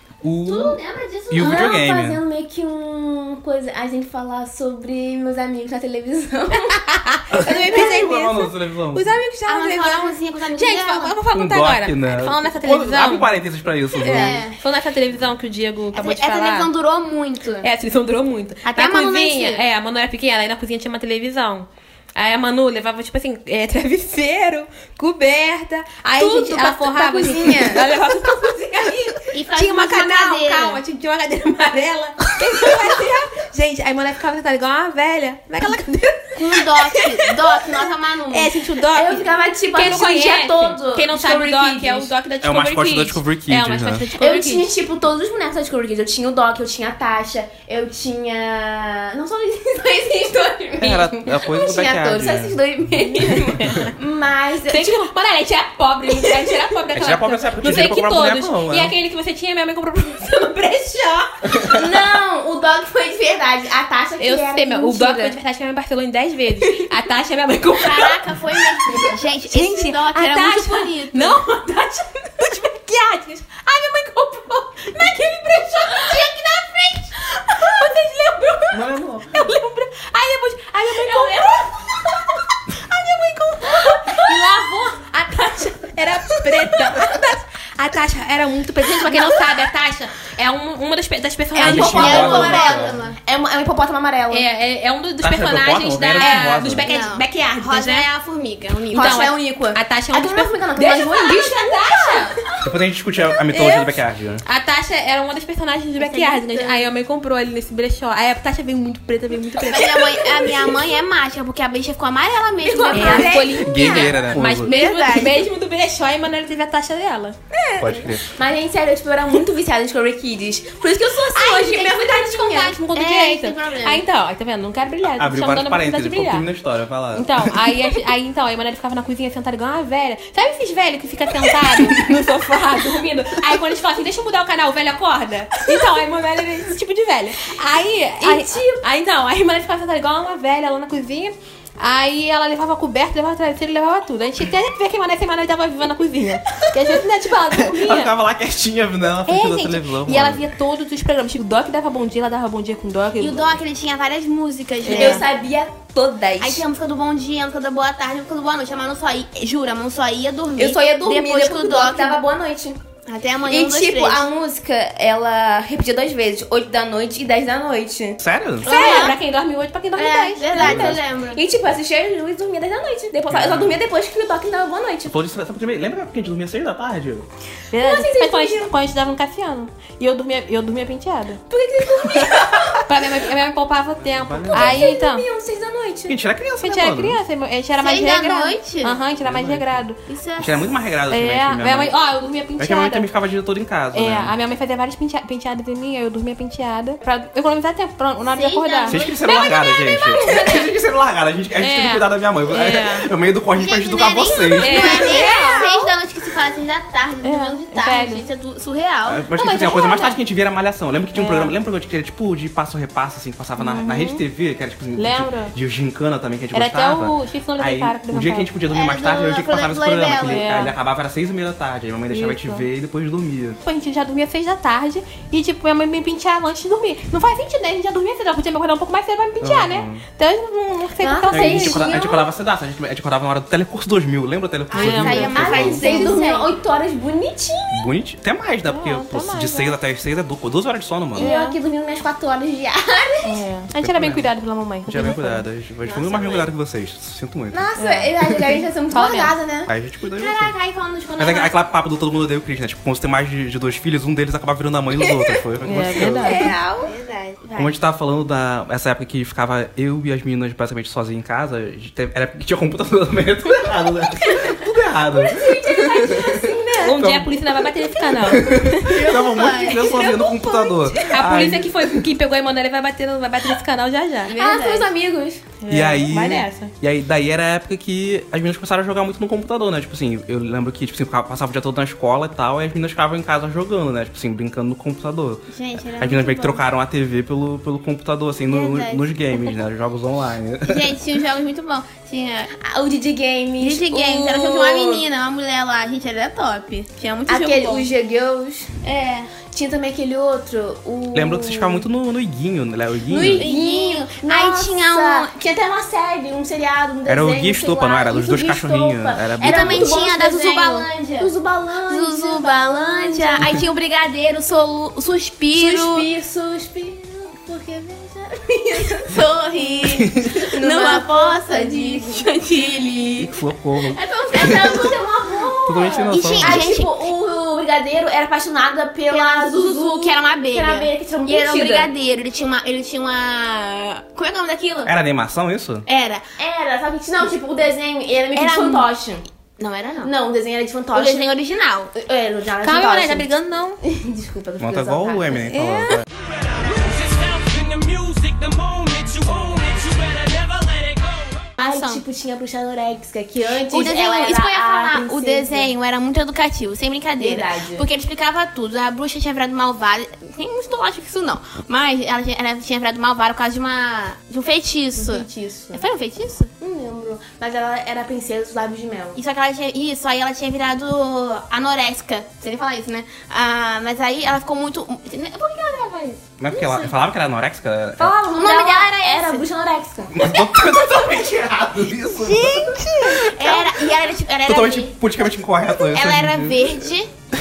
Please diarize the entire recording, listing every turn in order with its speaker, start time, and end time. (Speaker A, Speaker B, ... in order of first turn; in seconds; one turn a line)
Speaker A: 0.2-0.8
Speaker B: 0.4-1.8
Speaker A: 1.3-2.2
Speaker C: 1.4-8.0
Speaker D: 6.8-13.3
Speaker A: 7.3-9.1
Speaker B: 9.5-11.2
Speaker A: 11.3-14.4
Speaker D: 13.9-16.7
Speaker B: 14.1-14.6
Speaker B: 15.9-17.7
Speaker D: 17.6-37.8
Speaker B: 18.6-19.6
Speaker C: 26.2-27.9
Speaker B: 29.3-30.8
Speaker B: 36.3-38.5
Speaker D: 38.3-44.7
Speaker C: 38.9-42.1
Speaker A: 42.4-44.1
Speaker C: 44.2-55.0
Speaker A: 50.8-52.6
Speaker D: 53.1-53.9
Speaker D: 54.7-61.8
Speaker C: 56.1-56.6
Speaker A: 56.9-58.9
Speaker C: 61.6-65.3
Speaker D: 64.2-92.8
Speaker B: 67.8-71.4
Speaker A: 78.7-79.5
Speaker B: 81.0-81.5
Speaker C: 91.5-94.5
Speaker A: 91.6-93.0
Speaker B: 91.9-93.2
Speaker D: 94.3-98.1
Speaker A: 95.2-96.9
Speaker B: 96.3-99.3
Speaker D: 98.9-102.4
Speaker C: 98.9-102.4
Speaker A: 102.6-104.4
Speaker D: 103.5-110.7
Speaker B: 106.0-106.9
Speaker C: 109.6-110.8
Speaker B: 109.7-114.2
Speaker C: 112.6-115.4
Speaker D: 112.9-117.4
Speaker A: 113.4-114.7
Speaker B: 114.8-115.3
Speaker C: 117.5-122.8
Speaker A: 117.8-118.3
Speaker D: 121.3-126.5
Speaker B: 122.9-124.0
Speaker A: 125.0-127.5
Speaker D: 127.1-148.1
Speaker C: 138.2-138.8
Speaker A: 147.5-150.4
Speaker D: 149.2-153.5
Speaker B: 153.2-155.2
Speaker D: 154.8-155.2
Speaker C: 154.8-156.7
Speaker B: 156.4-162.2
Speaker C: 160.6-162.8
Speaker B: 163.1-164.3
Speaker C: 163.4-168.2
Speaker A: 168.2-168.7
Speaker D: 168.6-170.9
Speaker B: 168.6-169.2
Speaker C: 168.8-169.1
Speaker B: 169.9-171.4
Speaker C: 170.5-175.1
Speaker A: 170.6-171.0
Speaker A: 173.3-173.8
Speaker A: 175.1-177.2
Speaker D: 177.7-181.4
Speaker C: 177.8-178.7
Speaker C: 181.5-182.8
Speaker D: 182.8-185.2
Speaker A: 184.0-184.9
Speaker C: 184.5-186.2
Speaker A: 186.1-187.2
Speaker D: 186.6-190.0
Speaker B: 187.8-189.0
Speaker A: 189.2-189.8
Speaker B: 190.1-190.7
Speaker A: 190.4-192.0
Speaker D: 191.1-193.1
Speaker A: 192.6-194.3
Speaker D: 193.9-200.7
Speaker B: 198.2-199.2
Speaker A: 198.9-205.0
Speaker D: 201.6-203.1
Speaker B: 203.5-209.2
Speaker D: 204.6-205.9
Speaker C: 204.7-205.5
Speaker D: 207.2-208.2
Speaker A: 209.1-223.6
Speaker D: 209.3-210.2
Speaker D: 211.1-211.5
Speaker D: 213.6-214.2
Speaker D: 214.9-215.5
Speaker D: 216.5-218.6
Speaker B: 218.7-220.6
Speaker D: 220.1-220.7
Speaker D: 222.1-222.6
Speaker D: 223.6-232.1
Speaker A: 229.4-230.0
Speaker C: 231.0-232.3
Speaker A: 231.3-235.9
Speaker D: 234.7-236.2
Speaker B: 234.7-236.5
Speaker C: 235.3-237.8
Speaker A: 237.7-241.3
Speaker D: 238.7-239.8
Speaker C: 241.1-243.5
Speaker D: 241.2-241.6
Speaker D: 243.2-245.4
Speaker A: 243.7-244.3
Speaker A: 244.9-247.7
Speaker B: 245.8-246.5
Speaker C: 247.5-249.7
Speaker D: 247.8-248.1
Speaker D: 248.9-249.3
Speaker A: 249.7-250.5
Speaker B: 250.1-251.6
Speaker A: 251.2-256.5
Speaker D: 255.6-256.5
Speaker C: 255.9-256.9
Speaker B: 256.9-257.4
Speaker A: 257.5-266.4
Speaker C: 265.1-267.3
Speaker D: 266.8-269.1
Speaker A: 267.0-267.5
Speaker A: 268.2-271.9
Speaker C: 268.3-271.1
Speaker D: 269.8-270.2
Speaker D: 270.9-274.9
Speaker C: 274.3-275.4
Speaker D: 275.6-276.7
Speaker A: 275.7-290.9
Speaker B: 285.5-286.6
Speaker B: 288.5-289.1
Speaker B: 290.6-292.5
Speaker C: 292.6-295.1
Speaker B: 293.6-297.9
Speaker C: 297.3-298.8
Speaker B: 298.8-299.3
Speaker C: 299.5-301.9
Speaker A: 301.1-303.5
Speaker C: 303.1-313.5
Speaker B: 303.3-305.4
Speaker A: 307.1-309.9
Speaker B: 309.4-311.3
Speaker B: 311.9-316.1
Speaker C: 315.5-322.6
Speaker B: 319.1-323.3
Speaker A: 323.2-324.8
Speaker B: 323.9-325.0
Speaker C: 324.2-331.9
Speaker A: 325.6-326.7
Speaker B: 326.1-326.9
Speaker B: 329.1-334.9
Speaker A: 334.8-335.9
Speaker B: 335.8-336.2
Speaker C: 336.4-339.2
Speaker B: 338.3-338.9
Speaker B: 339.6-340.1
Speaker C: 340.0-341.3
Speaker B: 340.9-341.9
Speaker C: 341.9-343.3
Speaker D: 342.6-343.8
Speaker C: 343.8-345.5
Speaker A: 344.6-346.0
Speaker D: 345.5-346.0
Speaker E: 347.1-349.6
Speaker B: 351.6-352.0
Speaker C: 351.6-355.7
Speaker B: 353.7-366.5
Speaker C: 357.2-357.9
Speaker C: 364.9-365.8
Speaker C: 366.6-369.2
Speaker B: 369.1-376.2
Speaker A: 376.4-378.1
Speaker C: 376.5-376.9
Speaker C: 378.0-380.2
Speaker B: 378.3-379.4
Speaker A: 380.1-383.3
Speaker D: 382.2-383.3
Speaker B: 383.3-384.9
Speaker A: 384.4-386.7
Speaker B: 385.9-387.1